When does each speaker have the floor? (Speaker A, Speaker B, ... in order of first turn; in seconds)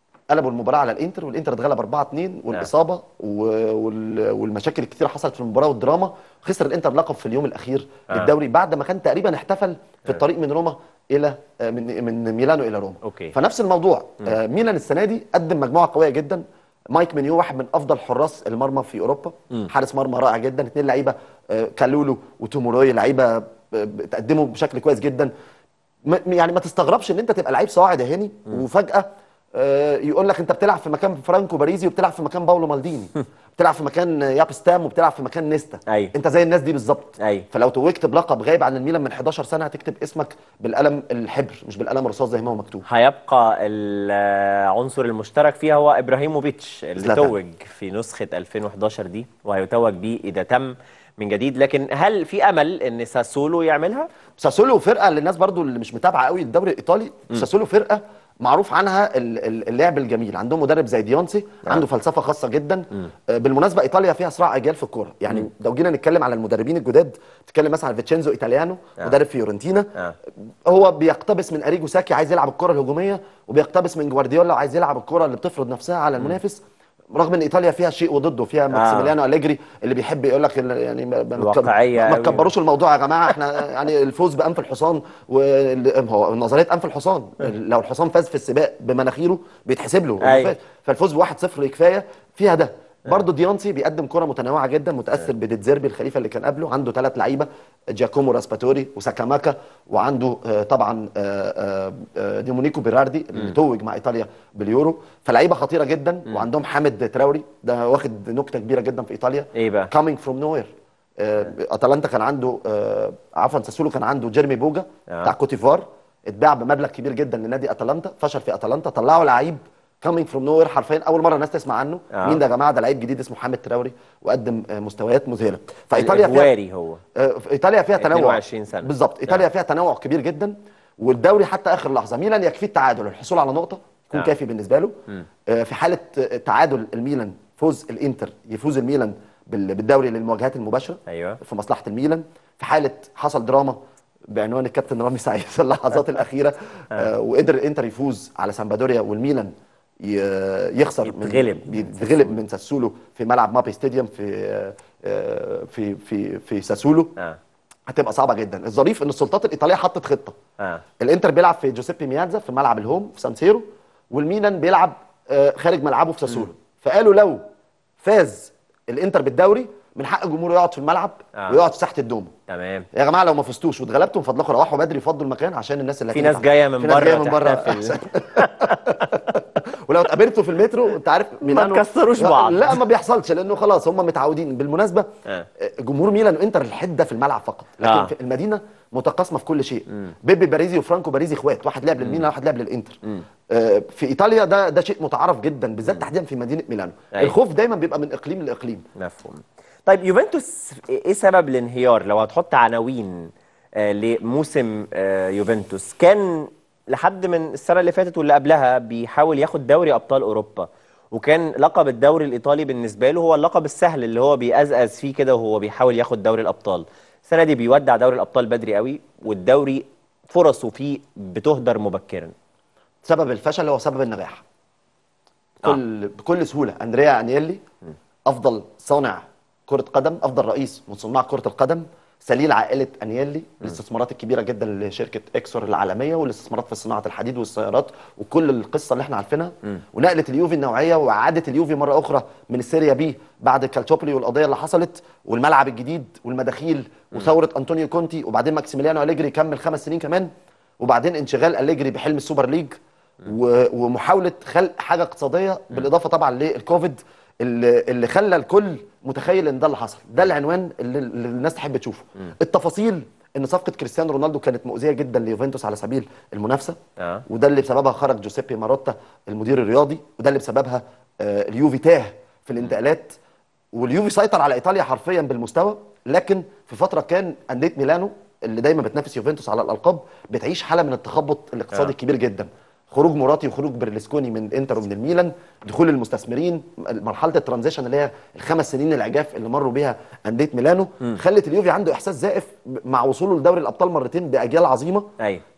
Speaker A: 0.3-25.3, 26.1-42.9, 47.0-47.3, 54.4-69.9, 70.7-76.6, 77.1-126.5, 127.2-135.0, 135.5-143.8, 144.3-149.5, 150.0-157.1, 157.9-160.4, 161.0-167.4, 168.0-172.3, 172.9-185.1, 185.6-198.9, 223.0-224.4, 225.6-227.6, 228.3-250.3, 250.8-273.2, 273.7-295.1
Speaker B: 13.0-13.3, 35.9-36.1, 37.2-37.5, 42.9-54.1, 78.7-79.1, 81.4-82.5, 90.2-90.5, 109.5-109.9, 122.1-122.4, 125.9-127.0, 128.0-129.4, 141.1-141.4, 151.0-152.3, 172.5-172.9, 176.1-179.2, 181.4-182.8, 187.8-188.1, 192.0-192.3, 199.0-222.3, 267.0-267.2